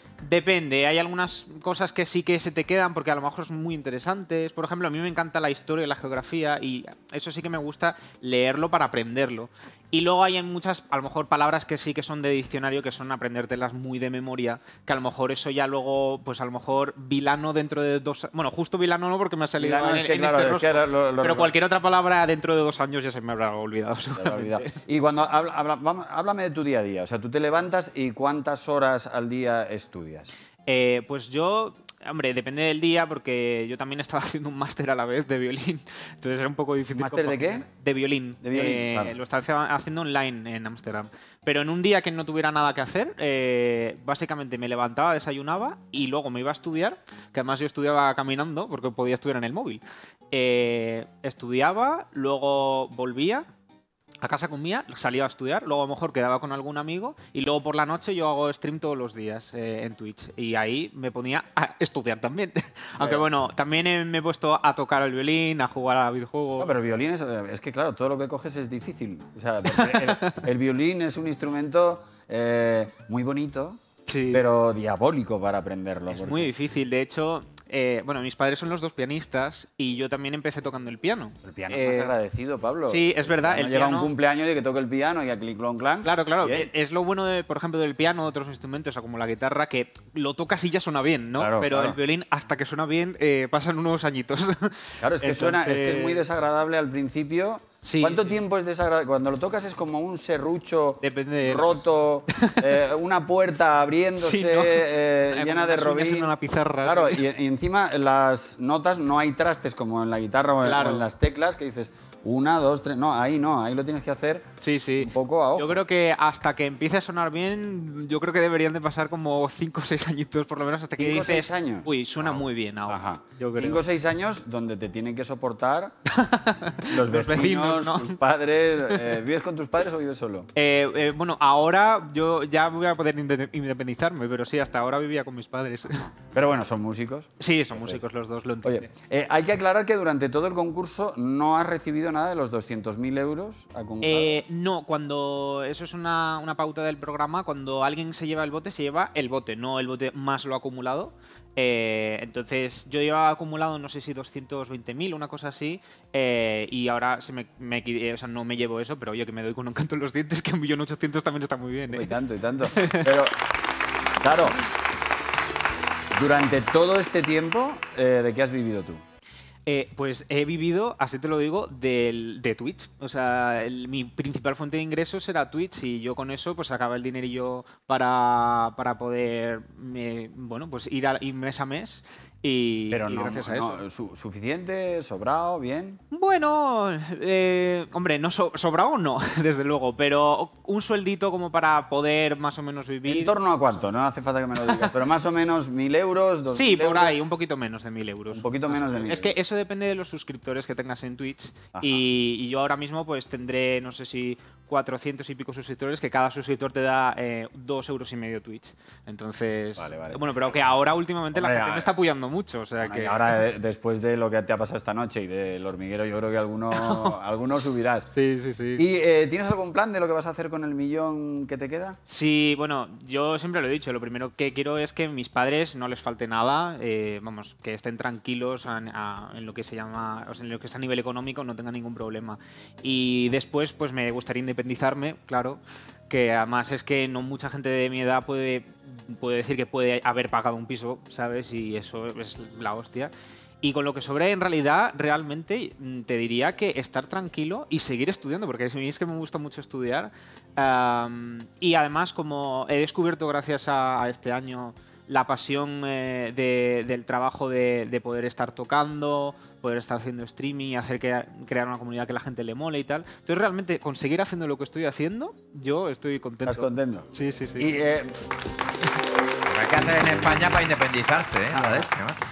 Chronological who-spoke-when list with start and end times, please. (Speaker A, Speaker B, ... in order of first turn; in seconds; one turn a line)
Speaker A: 0.2-24.8
Speaker B: 19.6-21.5
Speaker B: 24.2-30.3
Speaker A: 30.7-53.5
Speaker B: 36.9-37.7
Speaker B: 38.4-39.2
Speaker A: 54.2-66.7
Speaker B: 63.0-63.2
Speaker B: 66.6-73.8
Speaker A: 69.7-70.4
Speaker A: 74.1-74.5
Speaker B: 74.3-76.5
Speaker A: 76.1-82.1
Speaker B: 81.4-86.7
Speaker A: 82.8-84.1
Speaker A: 86.0-96.2
Speaker B: 91.4-92.0
Speaker B: 95.0-115.8
Speaker A: 97.8-98.4
Speaker A: 101.0-101.8
Speaker A: 104.2-107.2
Speaker A: 110.6-111.1
Speaker A: 114.6-123.8
Speaker B: 121.0-126.0
Speaker A: 126.1-128.2
Speaker B: 126.9-130.5
Speaker A: 130.6-136.1
Speaker B: 135.9-138.0
Speaker A: 137.4-138.9
Speaker B: 138.6-144.4
Speaker A: 144.0-162.1
Speaker B: 161.9-163.3
Speaker A: 162.8-163.1
Speaker B: 164.2-164.6
Speaker B: 166.1-169.0
Speaker A: 169.7-183.8
Speaker B: 182.9-186.0
Speaker A: 186.1-193.3
Speaker B: 193.1-197.2
Speaker A: 196.5-213.2
Speaker B: 198.3-199.3
Speaker B: 201.7-202.0
Speaker B: 209.8-210.7
Speaker B: 211.3-211.9
Speaker B: 212.8-218.1
Speaker A: 216.7-217.2
Speaker A: 218.1-218.8
Speaker B: 218.8-222.0
Speaker A: 222.1-267.7
Speaker B: 266.4-268.1
Speaker C: 269.5-272.2
Speaker B: 271.5-271.9